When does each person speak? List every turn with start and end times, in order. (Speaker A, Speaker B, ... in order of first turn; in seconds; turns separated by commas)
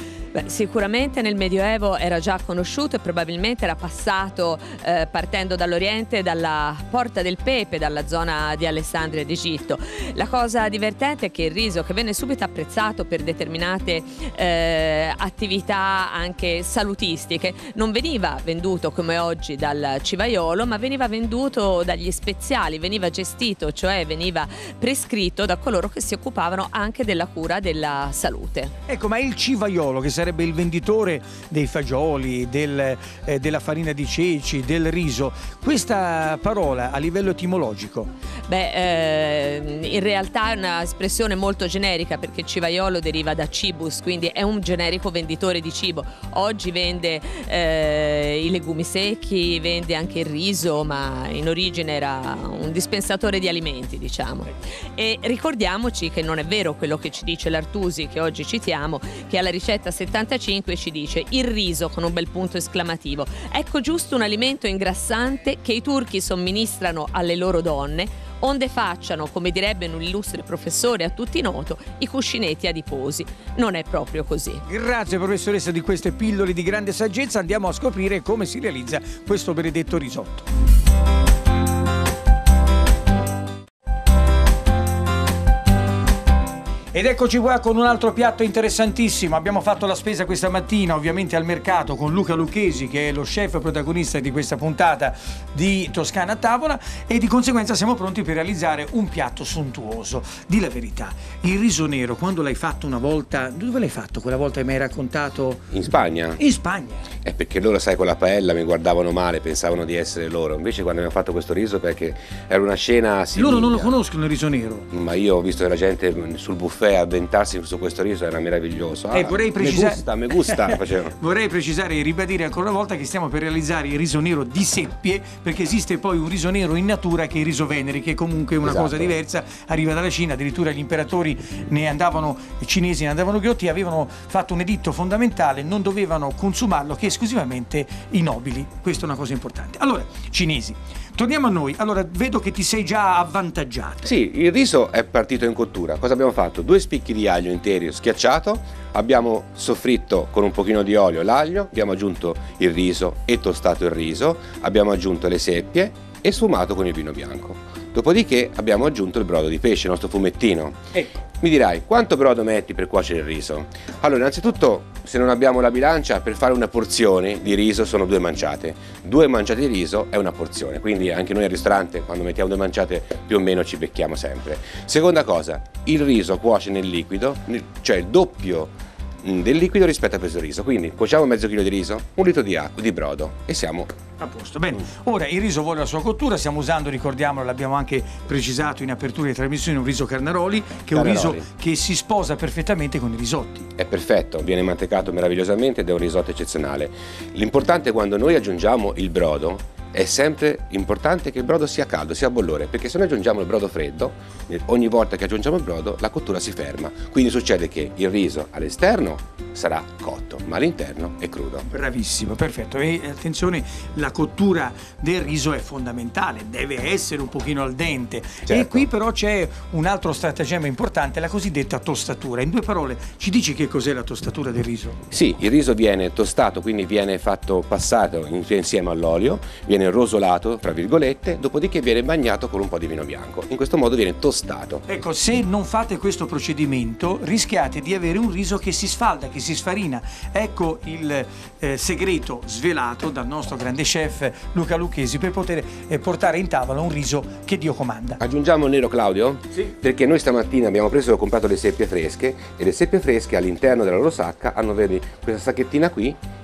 Speaker A: 0.3-28.7, Speaker B: 28.9-38.1, Speaker A: 38.5-74.6, Speaker B: 74.6-80.5, Speaker B: 86.9-105.7, Speaker C: 105.7-106.4, Speaker B: 106.3-107.1, Speaker C: 107.2-113.9, Speaker B: 113.3-114.9, Speaker C: 114.9-121.1, Speaker B: 119.1-144.1, Speaker C: 128.6-129.2, Speaker C: 144.0-160.8, Speaker C: 161.4-178.7, Speaker C: 179.2-183.9, Speaker B: 184.2-193.7, Speaker C: 190.9-191.5, Speaker C: 193.8-211.7, Speaker B: 211.7-225.0, Speaker C: 218.5-218.9, Speaker C: 225.1-234.8, Speaker B: 234.9-248.2, Speaker C: 248.2-256.2